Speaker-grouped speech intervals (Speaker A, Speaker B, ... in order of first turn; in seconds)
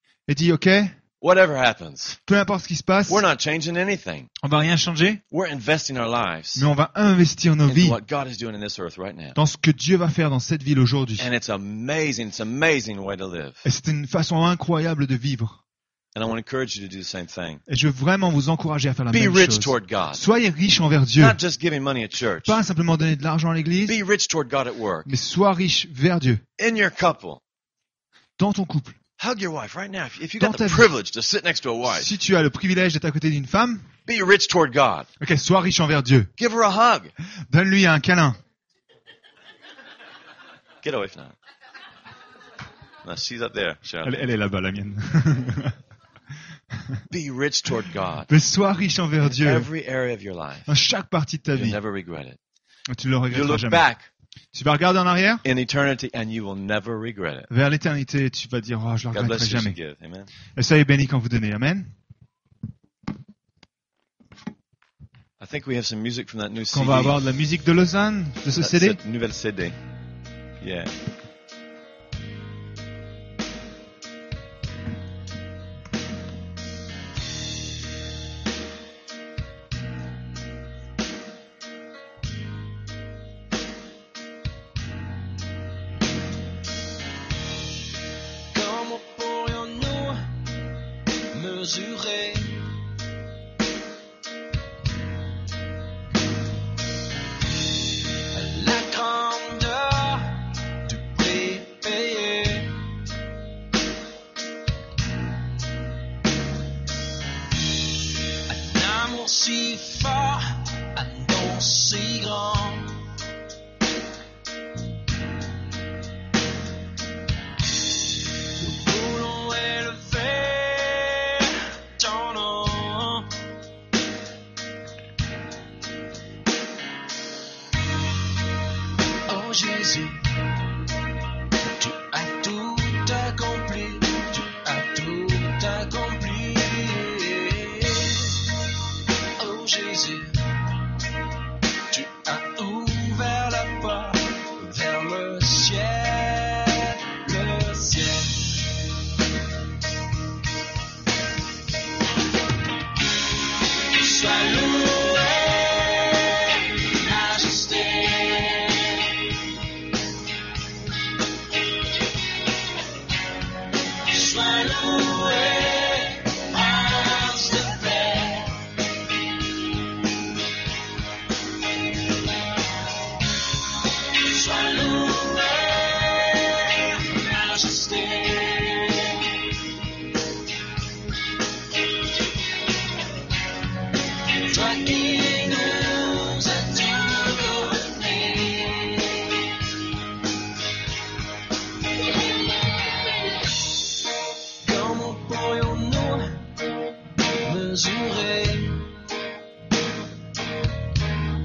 Speaker A: 0.3-0.9, 2.3-3.2, 4.4-5.2, 6.5-8.0, 9.3-11.3, 13.6-15.6, 17.7-21.4, 22.4-24.0, 25.1-26.4, 28.4-29.0, 30.4-30.9, 31.9-33.9, 35.2-36.3, 37.5-38.4, 44.0-45.8, 46.7-47.0, 48.3-49.7, 50.7-51.8, 52.9-53.8, 54.5-55.4, 57.5-59.8, 60.5-61.9, 66.7-69.0
Speaker B: 1.2-2.2, 3.1-4.3, 5.3-6.7, 7.7-9.4, 11.2-13.6, 16.1-17.6, 19.1-20.2, 21.2-22.6, 23.9-25.1, 26.6-27.4, 29.2-32.1, 34.0-35.1, 36.4-37.1, 40.8-41.3, 43.0-44.3, 47.1-48.3, 49.2-50.7, 51.5-52.4, 53.3-54.1, 55.4-57.5, 59.1-60.3, 65.4-67.2, 68.6-69.7, 70.6-70.9
Speaker C: 88.5-90.4, 91.3-92.7, 98.3-102.8, 108.3-113.0, 118.5-123.3, 129.3-130.5, 131.6-138.7, 139.4-140.7, 141.9-148.7, 153.7-159.3, 164.0-168.7, 174.0-179.6, 184.3-189.5, 194.6-196.5, 197.3-198.9